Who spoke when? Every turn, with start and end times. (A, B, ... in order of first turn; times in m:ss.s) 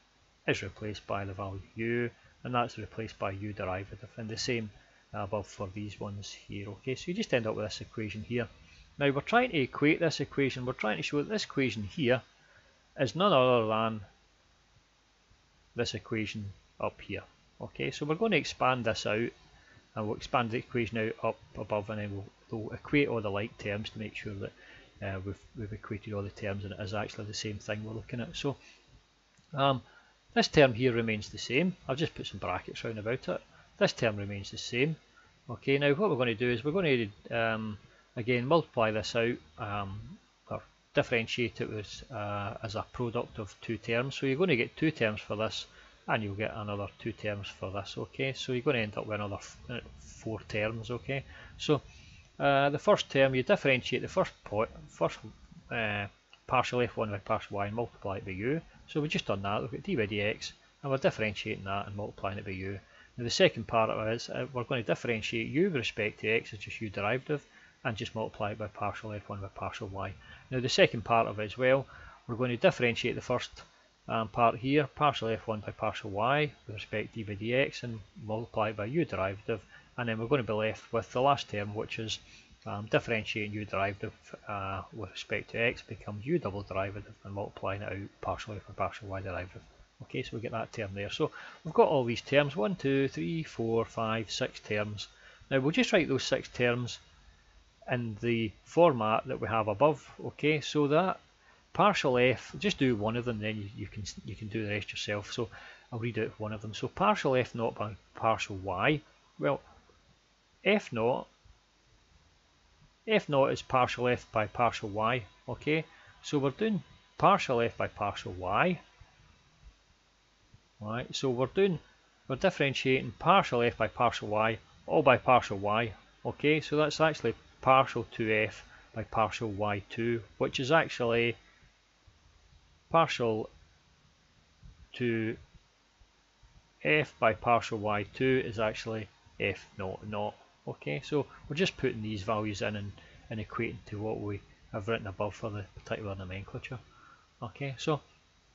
0:00.5-0:12.2 A
0:13.0-0:14.0 A
0:15.7-0:19.3 A
0:19.9-0:28.6 A
0:29.5-0:29.8 A
0:30.3-0:35.0 A
0:35.5-0:51.8 A
0:52.4-1:37.0 A
1:37.9-1:41.2 A
1:41.7-1:49.6 A
1:50.6-1:51.3 A
1:53.0-1:58.8 A
2:00.8-2:11.4 A
2:12.9-2:13.5 A
2:14.9-2:15.4 A
2:16.8-2:26.8 A
2:27.4-2:28.0 A